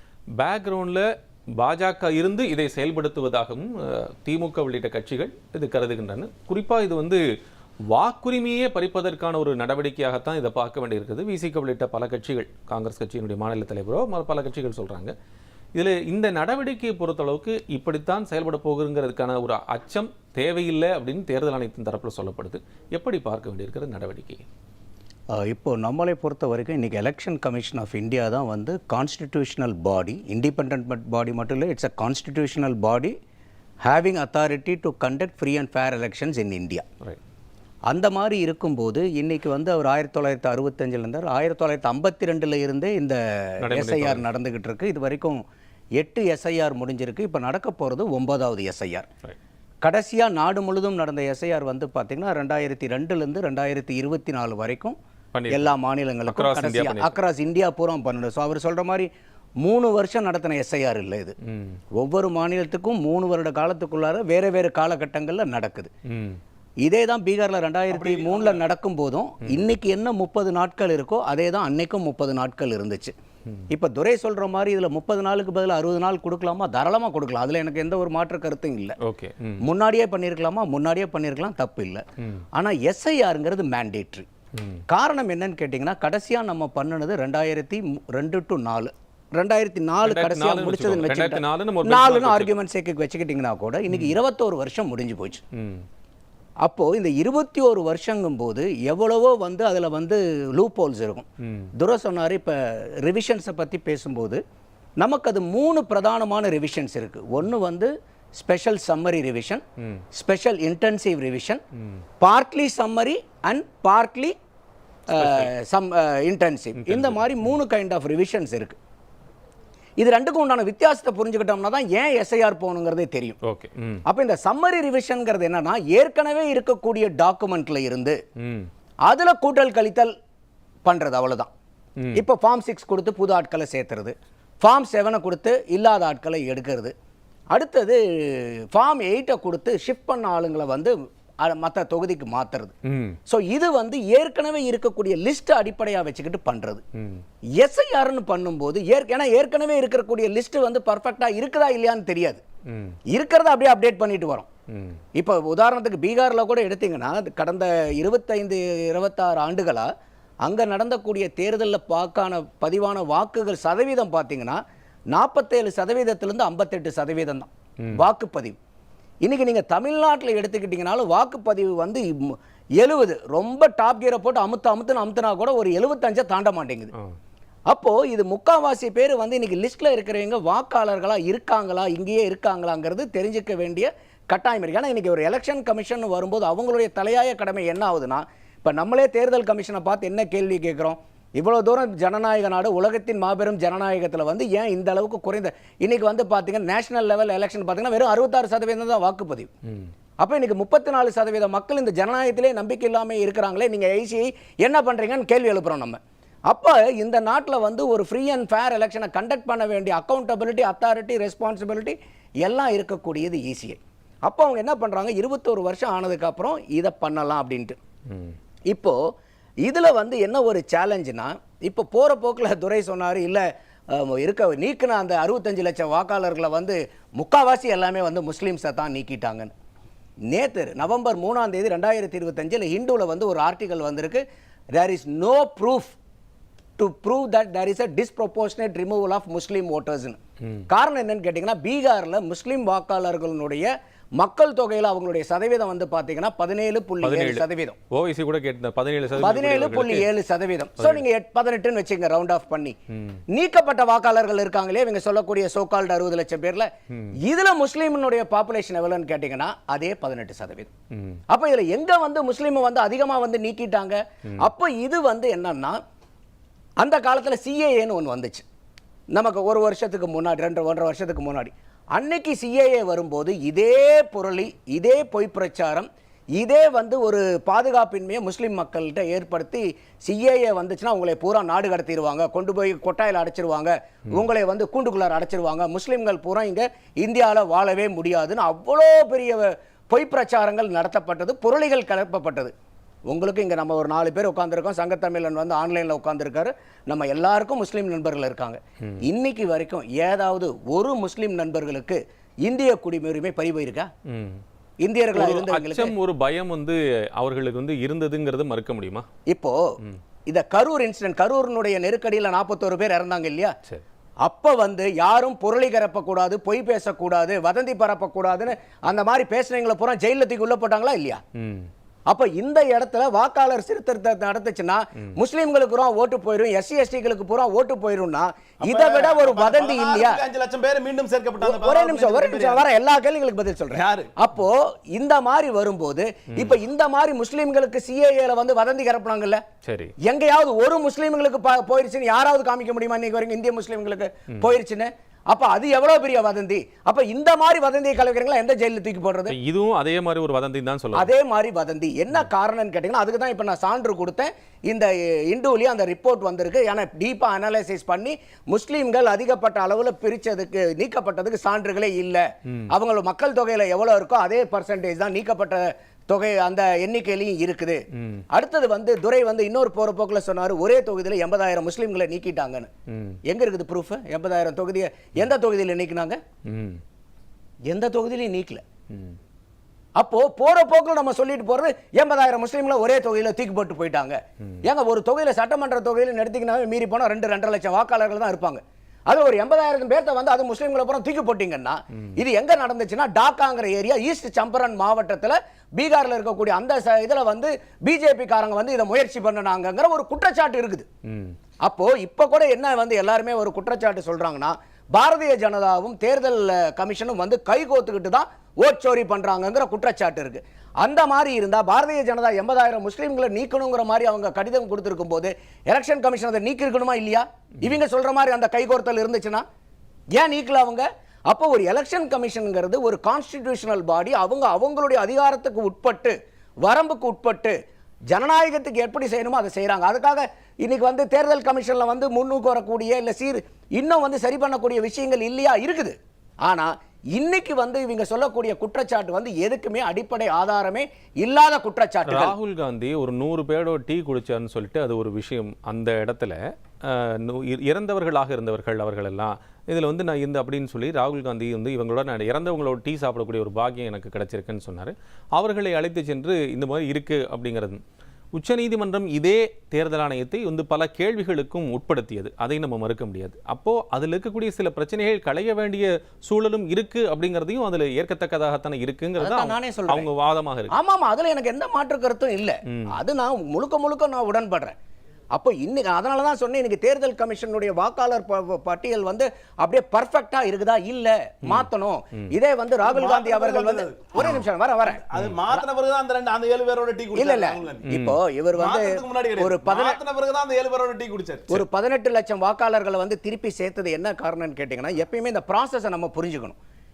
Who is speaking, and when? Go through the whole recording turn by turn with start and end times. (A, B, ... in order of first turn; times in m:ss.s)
0:00.4-0:01.0 A
0:01.6-0:07.2 A
0:07.9-0:15.1 A
0:15.8-0:24.4 A
0:25.4-0:33.1 B
0:33.8-0:36.8 B
0:37.9-0:45.4 B
0:43.6-0:44.3 A
0:46.0-0:49.1 B
0:49.8-0:55.0 B
0:55.3-0:55.7 A
0:55.5-0:59.1 B
0:56.2-0:57.2 A
0:59.6-1:01.3 B
1:01.5-1:01.8 A
1:02.0-1:05.9 B
1:06.1-1:06.4 A
1:06.8-1:13.1 B
1:07.9-1:08.6 C
1:13.7-1:19.0 B
1:19.0-1:19.6 A
1:19.6-1:22.0 B
1:22.6-1:24.3 B
1:24.9-1:35.4 B
1:30.0-1:32.5 A
1:33.9-1:34.2 A
1:35.6-1:35.8 A
1:36.6-1:41.3 B
1:41.8-1:44.4 B
1:45.0-1:49.6 B
1:50.2-1:51.6 B
1:52.2-1:54.3 B
1:55.1-1:58.8 B
1:55.2-1:55.5 A
1:56.8-1:57.2 A
2:00.0-2:03.4 B
2:03.5-2:04.0 A
2:04.1-2:08.2 B
2:08.4-2:08.7 A
2:09.1-2:10.1 B
2:10.8-2:11.5 B
2:12.2-2:16.9 B
2:17.5-2:22.7 B
2:22.9-2:23.2 A
2:23.3-2:26.8 B
2:27.0-2:27.2 A
2:27.6-2:32.4 B
2:32.7-2:33.0 A
2:33.1-2:34.5 B
2:34.7-2:35.0 A
2:35.2-2:39.9 B
2:40.4-2:44.6 B
2:45.1-2:48.6 B
2:49.2-2:56.9 B
2:57.7-3:19.5 B
3:20.2-3:37.8 B
3:38.7-3:39.0 B
3:39.6-3:49.5 B
3:50.3-3:54.2 B
3:54.8-3:56.0 B
3:56.8-4:00.2 B
4:00.7-4:07.8 B
4:07.0-4:10.1 A
4:09.2-4:12.8 B
4:13.3-4:16.7 B
4:17.2-4:20.7 B
4:21.0-4:21.2 A
4:21.3-4:25.8 B
4:26.8-4:28.4 B
4:29.1-4:52.5 B
4:53.1-5:03.9 B
5:04.1-5:04.4 A
5:04.8-5:06.0 B
5:05.1-5:09.1 A
5:09.3-5:09.6 B
5:10.3-5:13.5 B
5:14.2-5:21.2 B
5:21.4-5:21.7 A
5:22.1-5:30.2 B
5:28.6-5:32.6 C
5:31.4-5:39.4 B
5:33.7-5:34.1 C
5:36.3-5:36.6 A
5:39.6-5:39.9 A
5:40.0-5:49.4 B
5:49.3-5:51.1 A
5:51.0-6:12.7 B
6:08.0-6:08.2 A
6:12.9-6:13.2 A
6:13.3-6:16.2 B
6:16.5-6:16.8 A
6:17.7-6:18.6 B
6:20.0-6:40.9 B
6:41.1-6:41.4 A
6:41.6-6:59.4 B
7:00.1-7:07.6 B
7:08.1-7:22.4 B
7:22.1-7:37.8 A
7:38.4-7:50.7 A
7:49.2-7:50.1 B
7:50.7-7:54.8 B
7:55.3-8:05.6 B
8:02.8-8:04.3 C
8:04.8-8:07.9 C
8:07.1-8:10.0 B
8:07.9-8:08.2 A
8:08.5-8:11.5 C
8:11.5-8:16.6 B